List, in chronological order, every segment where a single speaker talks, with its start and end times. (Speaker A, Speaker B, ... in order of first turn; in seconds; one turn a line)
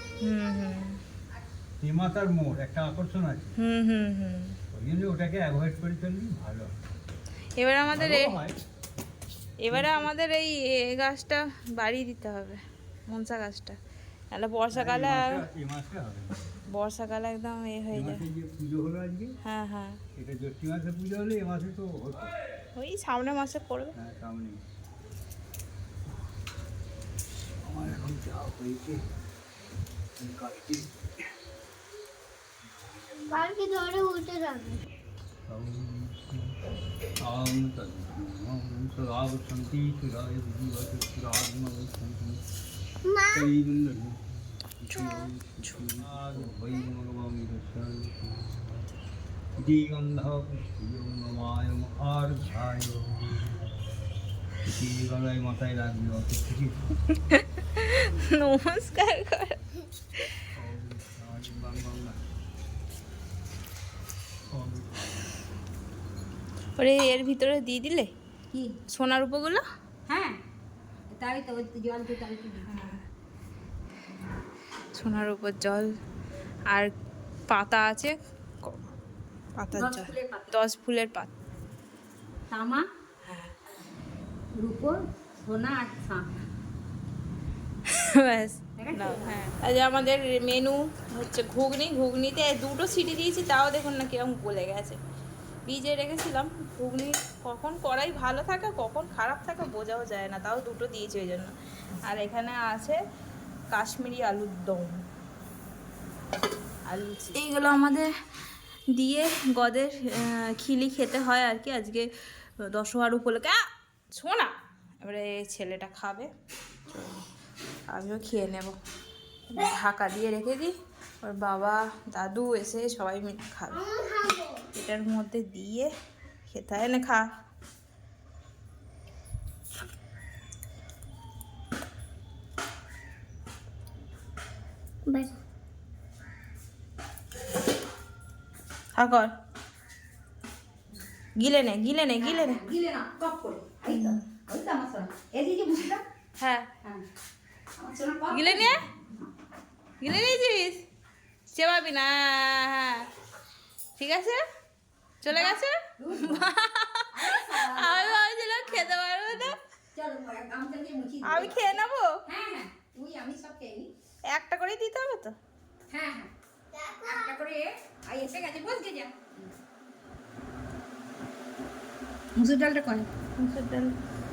Speaker A: 0.2-1.0
Speaker B: 1.8-3.5
Speaker A: 3.6-4.6
Speaker B: 4.7-6.7
Speaker A: 7.6-8.3
Speaker B: 7.9-8.6
Speaker A: 9.6-13.8
Speaker B: 9.7-10.1
Speaker A: 14.3-15.4
Speaker B: 14.7-16.3
Speaker A: 16.7-18.2
Speaker B: 17.9-19.4
Speaker A: 19.4-20.0
Speaker B: 20.2-22.3
Speaker A: 22.8-23.9
Speaker B: 24.0-24.6
Speaker B: 27.6-29.1
Speaker B: 30.2-30.9
Speaker B: 32.7-33.5
Speaker C: 33.3-34.8
Speaker B: 35.5-36.6
Speaker B: 37.2-42.4
Speaker C: 43.0-43.5
Speaker B: 43.3-48.9
Speaker C: 44.9-45.3
Speaker A: 45.7-46.0
Speaker B: 49.6-53.7
Speaker B: 54.6-56.8
Speaker A: 57.1-59.6
Speaker B: 60.6-62.2
Speaker B: 64.5-65.1
Speaker A: 66.8-68.1
Speaker A: 68.9-69.6
Speaker D: 70.1-70.4
Speaker D: 71.1-73.0
Speaker A: 72.7-73.0
Speaker A: 75.0-75.9
Speaker A: 77.5-79.0
Speaker A: 79.6-81.3
Speaker D: 79.7-80.5
Speaker D: 82.5-82.8
Speaker A: 83.3-83.5
Speaker D: 84.6-86.2
Speaker A: 87.9-95.0
Speaker D: 88.8-89.5
Speaker A: 95.7-101.5
Speaker A: 102.0-103.0
Speaker A: 103.7-105.0
Speaker D: 106.9-107.3
Speaker A: 107.3-108.1
Speaker A: 108.9-112.1
Speaker A: 112.6-113.6
Speaker A: 114.1-116.3
Speaker A: 116.9-117.3
Speaker A: 117.9-118.7
Speaker A: 119.5-123.8
Speaker C: 123.7-124.7
Speaker A: 124.7-125.9
Speaker A: 126.5-127.2
Speaker C: 135.1-135.3
Speaker A: 139.0-139.3
Speaker A: 141.4-142.6
Speaker D: 142.2-146.0
Speaker A: 143.9-144.2
Speaker A: 146.4-146.7
Speaker D: 147.8-149.3
Speaker A: 148.3-148.8
Speaker A: 150.0-150.8
Speaker A: 151.5-153.1
Speaker A: 154.0-154.4
Speaker A: 155.2-159.6
Speaker D: 155.3-156.5
Speaker D: 157.1-163.9
Speaker A: 161.3-162.1
Speaker A: 164.3-165.3
Speaker D: 165.9-166.3
Speaker C: 166.7-167.3
Speaker D: 167.0-169.5
Speaker D: 172.4-173.1
Speaker A: 173.4-173.9